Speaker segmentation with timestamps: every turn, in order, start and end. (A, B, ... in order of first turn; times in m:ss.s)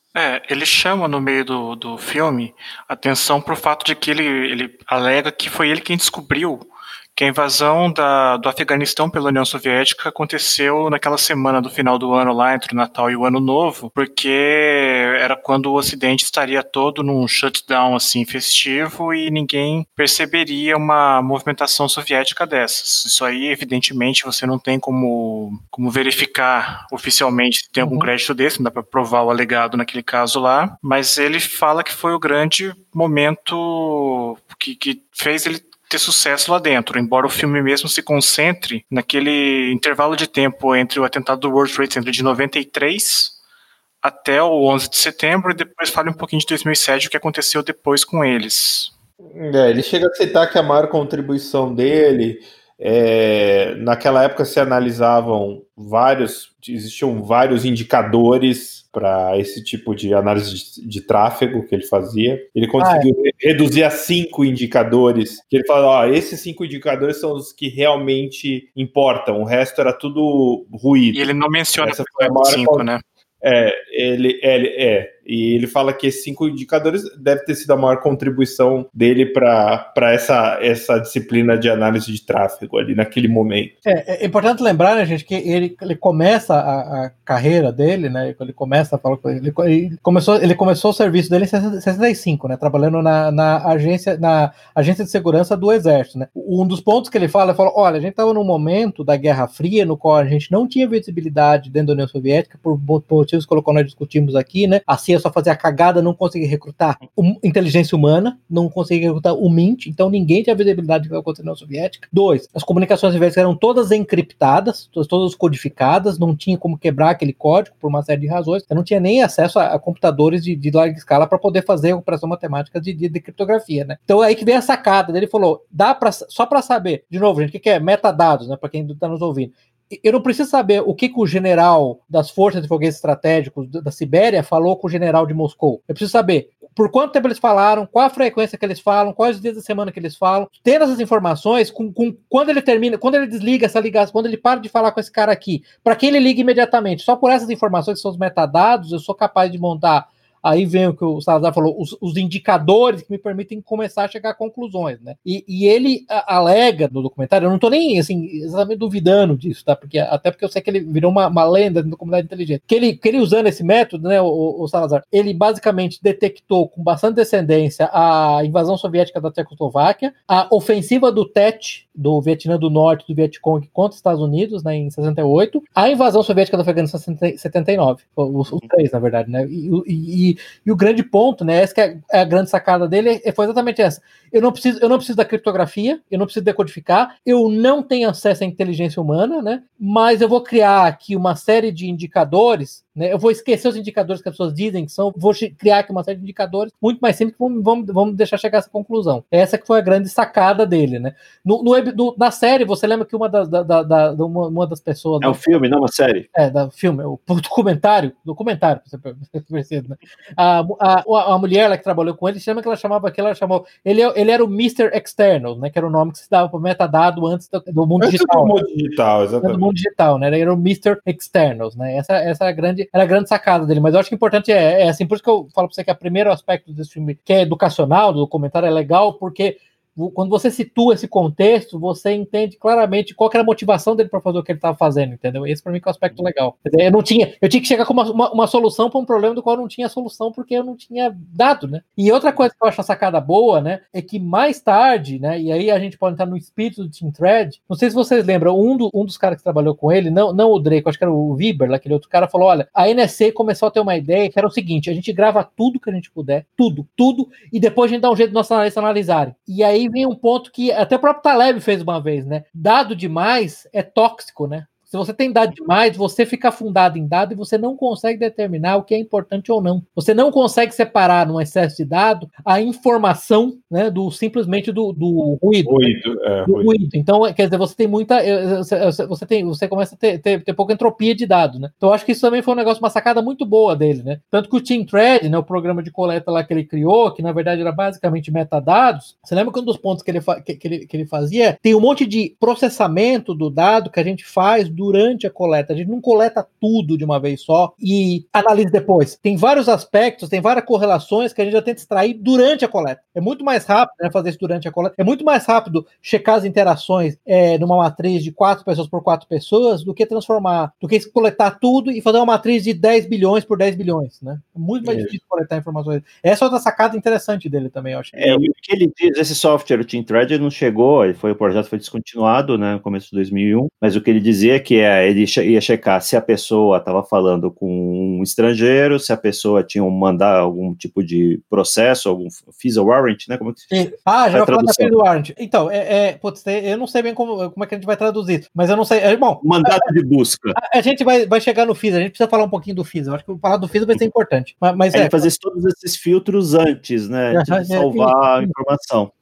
0:00.1-0:43.4 A
0:27.8-0:28.1 B
0:44.0-0:48.9 A
0:49.3-1:11.2 C
1:02.8-1:03.1 B
1:11.1-1:13.0 A
1:11.8-1:12.8 C
1:13.4-1:23.8 C
1:23.8-3:25.6 B
3:25.2-3:26.3 D
3:26.3-3:38.6 B
3:38.0-3:39.7 C
3:39.4-4:35.9 B
4:35.6-4:36.7 C
4:36.4-5:18.4 B
5:14.8-5:15.1 C
5:18.1-5:33.6 D
5:33.7-5:39.9 B
5:34.3-5:34.9 D
5:39.4-5:40.6 D
5:40.6-5:45.3 B
5:44.9-5:49.1 D
5:47.3-5:48.5 B